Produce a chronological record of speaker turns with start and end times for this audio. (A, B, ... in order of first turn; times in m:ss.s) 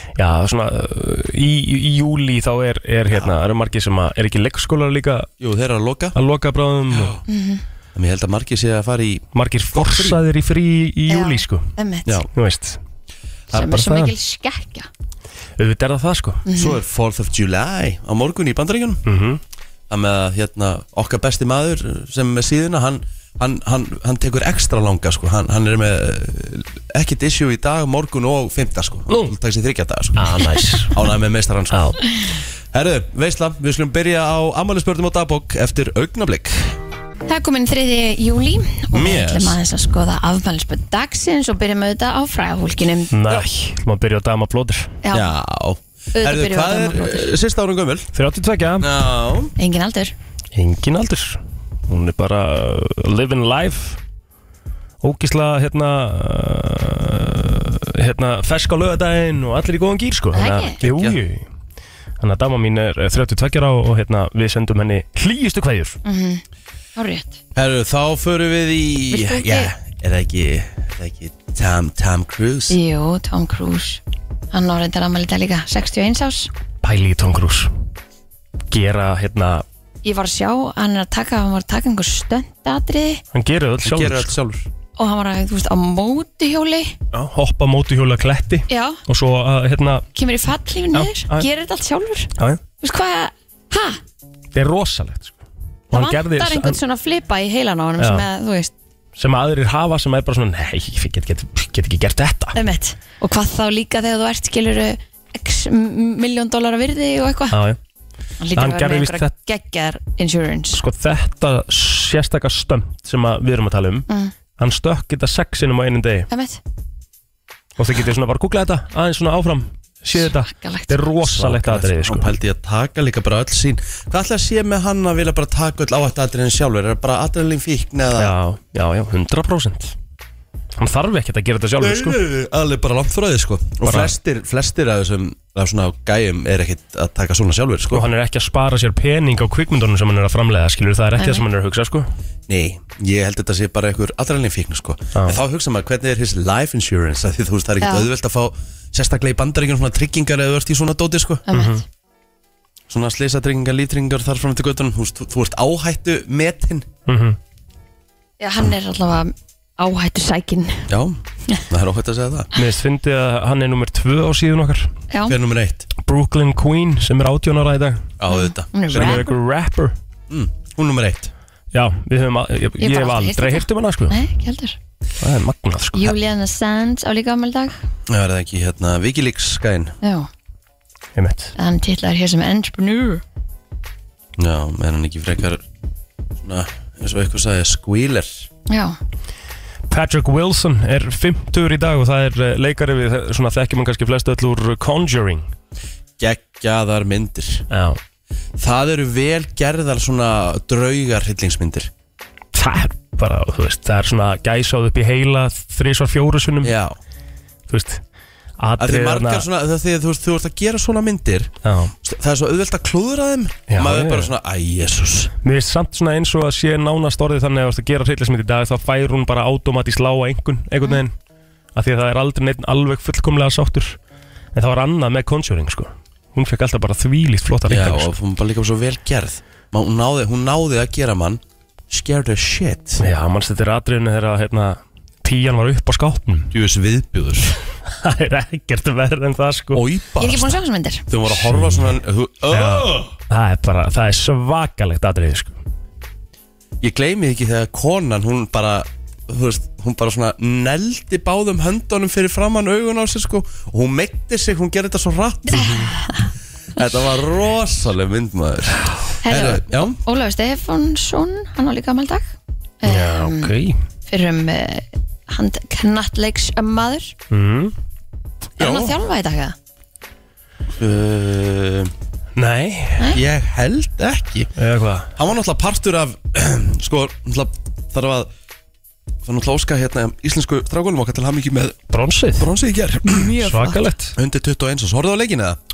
0:00.2-0:05.3 A
0:05.4-0:06.2 B
0:06.1-0:07.2 A
0:06.9-0:07.2 B
0:07.3-0:07.6 C
0:07.9-0:10.2 B
0:09.3-0:11.7 A
0:11.1-0:12.1 C
0:12.3-0:12.8 A
0:13.5-0:14.1 A
0:13.5-0:14.9 C
0:15.6-0:16.4 A
0:16.4-0:16.8 C
0:16.5-0:19.0 B
0:19.0-0:19.4 A
0:19.9-0:36.8 B
0:29.1-0:29.3 A
0:30.2-0:31.0 A
0:31.7-0:32.0 A
0:37.3-0:43.4 C
0:38.9-0:39.6 B
0:43.1-0:45.0 A
0:45.0-0:45.3 C
0:45.1-0:48.1 B
0:46.1-0:47.3 C
0:48.1-0:48.9 A
0:48.8-0:49.5 B
0:49.6-0:50.1 C
0:50.5-0:54.0 A
0:55.0-1:01.4 A
1:00.3-1:00.8 C
1:00.8-1:01.2 B
1:02.2-1:06.0 A
1:06.0-1:06.4 C
1:07.0-1:07.4 C
1:07.5-1:12.8 B
1:09.1-1:09.7 C
1:12.7-1:14.0 C
1:14.5-1:16.5 C
1:16.8-1:17.7 A
1:18.7-1:19.6 A
1:20.0-1:23.2 C
1:23.3-1:24.3 A
1:23.8-1:24.7 B
1:25.0-1:26.9 C
1:27.1-1:30.1 A
1:28.7-1:29.0 C
1:30.1-1:34.0 C
1:30.9-1:31.5 A
1:34.5-1:35.4 A
1:35.9-1:36.8 A
1:35.9-1:38.7 C
1:38.0-1:38.2 A
1:39.2-1:42.6 A
1:42.5-1:47.6 C
1:47.5-1:47.8 A
1:48.4-1:50.8 C
1:48.5-1:49.3 A
1:50.7-1:56.3 A
1:56.3-1:56.6 C
1:57.8-2:02.3 A
2:00.1-2:01.0 C
2:01.2-2:08.3 B
2:08.2-2:09.9 A
2:10.8-2:12.2 A
2:11.8-2:18.1 B
2:13.8-2:14.1 A
2:17.9-2:22.1 A
2:21.2-2:21.4 C
2:22.5-2:31.5 B
2:27.8-2:28.1 C
2:31.5-2:31.8 C
2:31.5-2:31.8 A
2:32.9-2:36.9 B
2:37.1-2:37.4 A
2:38.4-2:40.9 C
2:40.9-2:42.5 B
2:42.5-2:44.9 A
2:45.1-2:45.4 C
2:45.3-2:45.9 B
2:46.0-2:48.1 A
2:48.2-2:49.2 B
2:48.3-2:49.3 C
2:48.9-2:49.9 A
2:50.3-2:51.3 B
2:51.7-2:54.2 A
2:52.8-2:54.8 C
2:55.2-2:56.2 A
2:55.9-2:57.8 C
2:58.1-3:00.0 B
3:00.0-3:00.3 C
3:01.1-3:01.5 A
3:01.6-3:03.2 C
3:04.4-3:05.6 B
3:06.4-3:08.5 B
3:08.7-3:09.0 C
3:09.9-3:15.5 A
3:16.2-3:17.6 B
3:17.7-3:18.0 A
3:18.6-3:21.9 B
3:22.5-3:26.7 A
3:26.6-3:27.0 B
3:27.7-3:28.0 A
3:28.6-3:29.4 A
3:28.8-3:35.3 B
3:31.6-3:31.9 A
3:33.7-3:34.3 A
3:35.4-3:41.1 A
3:41.7-3:44.0 A
3:44.5-3:48.1 A
3:47.7-3:53.1 B
3:53.0-3:56.5 A
3:56.5-3:57.6 B
3:57.9-3:59.8 A
3:59.7-4:03.1 B
4:00.2-4:01.1 C
4:01.3-4:01.9 A
4:02.5-4:05.5 A
4:06.8-4:15.9 B
4:15.5-4:16.3 C
4:16.8-4:20.0 B
4:19.2-4:23.5 C
4:22.8-4:23.8 A
4:24.1-4:27.1 C
4:27.3-4:27.7 A
4:28.6-4:29.6 C
4:28.6-4:29.0 B
4:30.7-4:31.9 B
4:32.4-4:33.1 A
4:33.1-4:34.5 B
4:34.6-4:35.1 A
4:35.1-4:38.3 B
4:39.2-4:41.8 B
4:41.9-4:42.5 A
4:42.4-4:43.3 B
4:43.0-4:43.8 C
4:43.4-4:44.2 A
4:44.2-4:45.6 B